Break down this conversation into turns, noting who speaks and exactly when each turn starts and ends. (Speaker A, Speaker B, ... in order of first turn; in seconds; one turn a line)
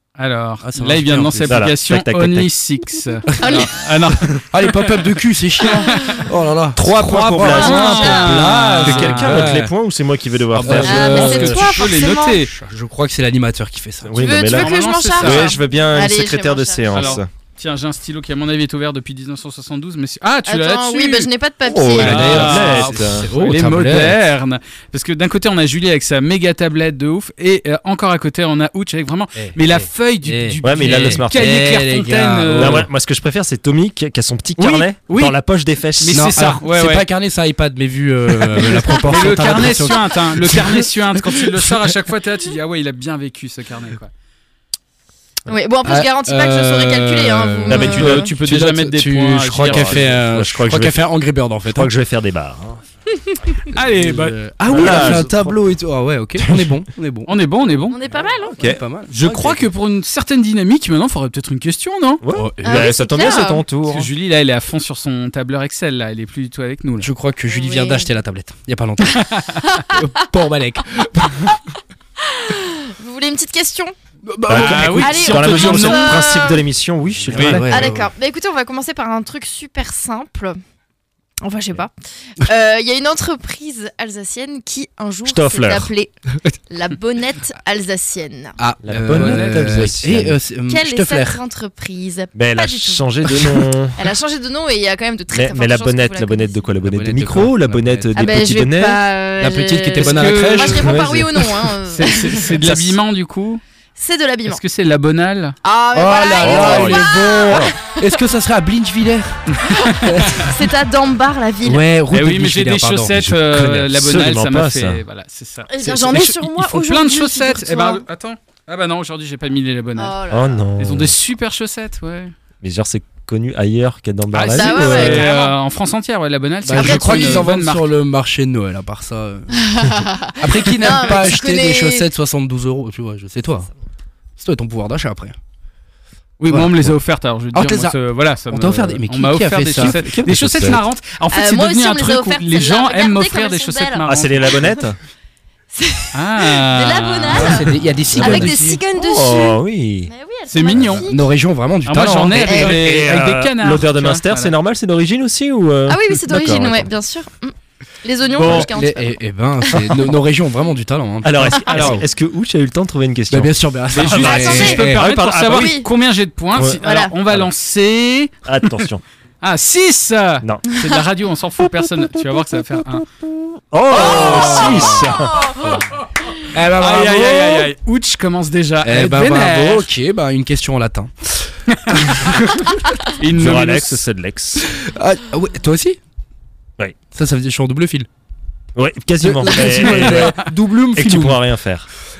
Speaker A: 0.2-6.2
Speaker B: 0.6-1.6
Speaker C: 1.5-2.5
Speaker D: 3.4-3.7
Speaker B: 4.5-9.7
Speaker C: 6.7-11.6
Speaker A: 6.9-9.5
Speaker D: 7.4-8.4
Speaker A: 10.6-12.5
Speaker B: 10.6-11.9
Speaker D: 10.9-12.4
Speaker B: 12.4-14.3
Speaker C: 14.0-17.3
Speaker D: 14.2-17.2
Speaker A: 14.5-15.5
Speaker A: 16.9-21.3
Speaker D: 20.5-22.4
Speaker C: 21.6-23.3
Speaker A: 22.0-32.8
Speaker B: 22.1-24.2
Speaker B: 30.2-32.9
Speaker C: 30.6-31.6
Speaker C: 32.5-36.6
Speaker A: 34.6-35.4
Speaker A: 36.0-37.0
Speaker B: 36.1-41.7
Speaker A: 38.4-44.1
Speaker D: 45.5-48.3
Speaker B: 45.8-51.9
Speaker C: 47.7-48.3
Speaker A: 47.9-50.1
Speaker C: 49.5-51.0
Speaker C: 51.6-52.8
Speaker A: 53.7-55.2
Speaker B: 53.7-57.3
Speaker C: 54.7-55.6
Speaker C: 56.4-56.7
Speaker A: 57.3-58.0
Speaker D: 57.9-58.7
Speaker C: 58.5-58.8
Speaker B: 58.5-59.7
Speaker A: 59.1-62.2
Speaker C: 62.2-64.1
Speaker B: 62.3-62.9
Speaker D: 62.6-63.6
Speaker A: 63.9-67.1
Speaker B: 67.0-69.2
Speaker D: 67.5-68.1
Speaker A: 69.2-69.6
Speaker D: 69.7-70.0
Speaker B: 69.9-71.6
Speaker D: 72.2-73.9
Speaker B: 74.2-75.2
Speaker C: 74.5-77.7
Speaker A: 74.5-76.4
Speaker D: 75.0-76.6
Speaker B: 77.3-78.1
Speaker A: 77.3-77.7
Speaker D: 77.7-80.6
Speaker D: 81.4-86.1
Speaker C: 85.2-85.9
Speaker D: 86.7-88.5
Speaker B: 88.6-91.4
Speaker C: 88.8-90.4
Speaker A: 89.1-89.9
Speaker D: 90.7-93.0
Speaker C: 92.3-94.1
Speaker D: 94.0-96.6
Speaker C: 95.3-99.0
Speaker B: 96.8-98.2
Speaker D: 98.1-102.5
Speaker B: 99.4-101.2
Speaker A: 100.0-100.9
Speaker C: 100.6-101.3
Speaker A: 101.9-103.6
Speaker C: 102.6-102.9
Speaker D: 104.0-104.6
Speaker A: 104.5-105.5
Speaker D: 105.6-107.8
Speaker B: 105.9-110.4
Speaker C: 106.4-107.7
Speaker D: 109.7-111.8
Speaker A: 109.7-110.4
Speaker B: 111.6-113.6
Speaker A: 112.1-120.2
Speaker C: 113.5-115.0
Speaker D: 115.7-118.0
Speaker B: 115.8-116.1
Speaker D: 120.0-120.6
Speaker C: 120.3-121.2
Speaker A: 120.8-122.3
Speaker C: 122.6-125.2
Speaker A: 124.3-127.9
Speaker D: 124.5-125.4
Speaker B: 124.8-125.5
Speaker B: 126.6-129.6
Speaker D: 126.8-127.5
Speaker D: 129.6-132.1
Speaker B: 130.4-133.7
Speaker B: 134.4-135.3
Speaker A: 136.4-144.6
Speaker B: 137.5-138.0
Speaker B: 138.5-140.0
Speaker C: 139.8-140.8
Speaker D: 141.3-144.7
Speaker C: 144.0-145.0
Speaker D: 145.7-151.2
Speaker A: 146.1-147.7
Speaker B: 147.3-148.8
Speaker C: 148.1-150.1
Speaker A: 150.5-151.1
Speaker B: 151.1-152.4
Speaker A: 151.8-154.5
Speaker C: 151.9-156.9
Speaker D: 152.5-152.8
Speaker D: 155.9-159.2
Speaker A: 158.3-158.7
Speaker B: 158.4-161.7
Speaker C: 161.2-165.8
Speaker A: 161.7-162.0
Speaker B: 163.3-165.0
Speaker A: 163.9-168.8
Speaker D: 165.5-165.9
Speaker C: 166.5-167.5
Speaker D: 166.8-167.1
Speaker C: 168.4-169.0
Speaker A: 169.4-173.1
Speaker C: 173.7-175.6
Speaker B: 173.9-175.0
Speaker A: 174.1-174.8
Speaker D: 174.2-174.6
Speaker D: 175.2-175.7
Speaker B: 176.5-177.7
Speaker A: 176.8-179.9
Speaker B: 178.8-182.8
Speaker A: 181.7-182.3
Speaker A: 183.0-184.0
Speaker C: 183.3-184.7
Speaker B: 184.6-186.0
Speaker B: 187.1-188.1
Speaker C: 188.8-191.9
Speaker B: 189.2-191.4